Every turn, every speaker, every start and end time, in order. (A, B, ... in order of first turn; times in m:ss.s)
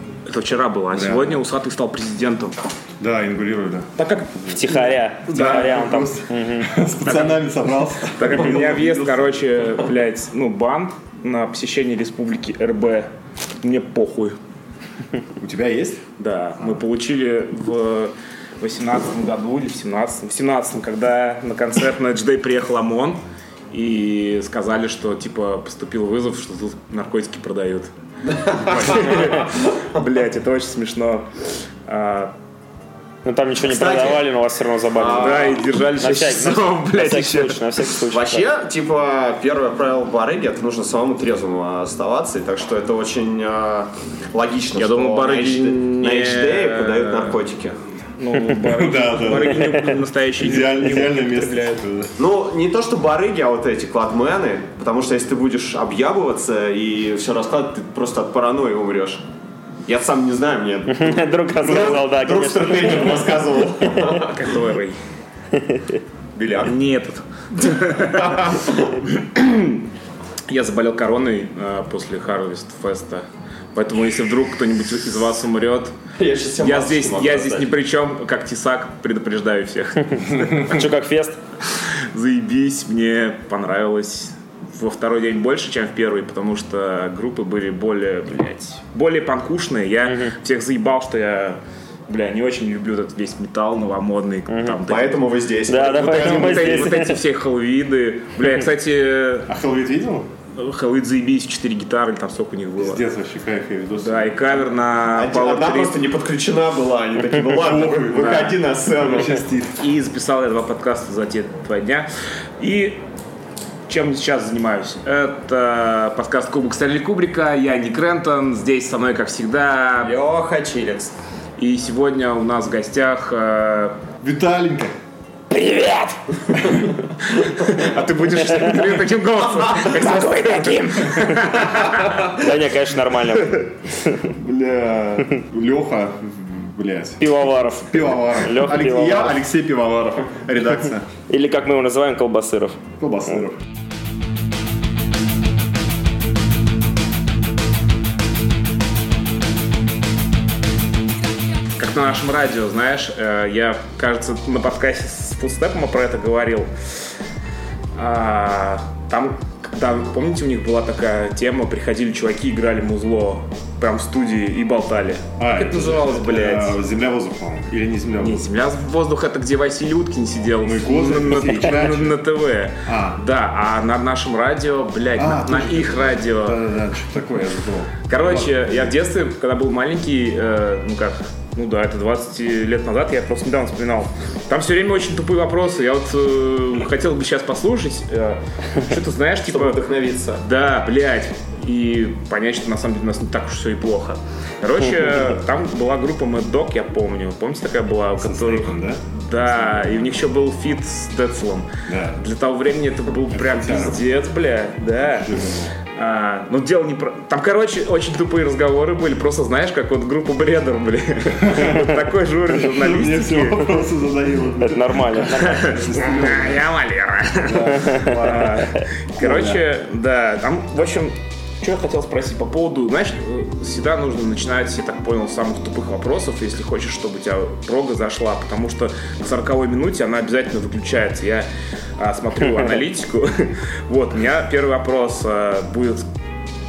0:00.2-0:02.6 A
0:00.9-0:01.4 B
0:03.0-0:03.9 B
0:04.0-0:04.8 A
0:04.5-0:06.7 C
0:05.3-0:09.3 B
0:05.3-0:05.7 A
0:07.0-0:07.4 A
0:08.2-0:13.1 A
0:13.6-0:14.4 A
0:15.4-0:16.0 B
0:16.2-0:23.2 A
0:23.7-0:27.9 A
0:28.3-0:29.1 D
0:28.6-0:31.3 A
0:31.9-0:32.3 A
0:33.2-0:38.5 C
0:33.6-0:34.3 D
0:34.9-0:35.6 D
0:35.2-0:37.8 A
0:38.1-0:47.8 D
0:44.8-0:47.4 A
0:48.2-0:51.8 A
0:48.6-0:52.1 B
0:52.2-0:59.2 D
0:59.9-1:04.5 D
1:00.9-1:03.3 C
1:04.0-1:05.0 A
1:05.5-1:06.0 C
1:06.3-1:06.8 D
1:06.6-1:09.8 A
1:10.5-1:15.9 A
1:16.2-1:17.7 D
1:16.6-1:20.9 A
1:20.4-1:21.4 C
1:21.7-1:35.2 A
1:30.1-1:30.3 C
1:34.5-1:34.8 C
1:34.9-1:37.0 D
1:35.7-1:37.2 C
1:35.9-1:39.5 A
1:39.5-1:40.3 B
1:40.6-1:43.0 A
1:42.8-1:44.3 B
1:44.0-1:46.0 A
1:45.1-1:49.4 D
1:47.5-1:49.8 B
1:48.1-1:48.5 A
1:49.8-1:52.1 A
1:52.6-1:53.0 A
1:53.9-2:00.1 A
2:00.0-2:01.1 D
2:01.6-2:04.0 A
2:04.2-2:04.9 B
2:05.5-2:12.2 A
2:12.1-2:14.2 C
2:14.2-2:17.3 B
2:17.2-2:19.4 C
2:17.9-2:21.1 B
2:21.3-2:22.8 C
2:23.0-2:23.6 B
2:31.8-2:36.7 A
2:38.0-2:46.8 A
2:45.4-2:48.5 B
2:48.2-2:56.6 A
2:50.6-2:52.2 B
2:52.9-2:53.2 B
2:55.2-2:58.5 B
2:58.1-3:09.8 A
3:09.5-3:10.4 D
3:10.4-3:25.3 A
3:18.2-3:20.1 B
3:21.9-3:22.2 B
3:23.3-3:24.0 B
3:25.0-3:25.7 B
3:25.9-3:33.8 A
3:31.4-3:31.8 B
3:32.5-3:36.6 B
3:34.6-3:35.8 C
3:35.3-3:56.0 A
3:37.4-3:38.6 B
3:37.8-3:38.2 C
3:39.2-3:39.6 B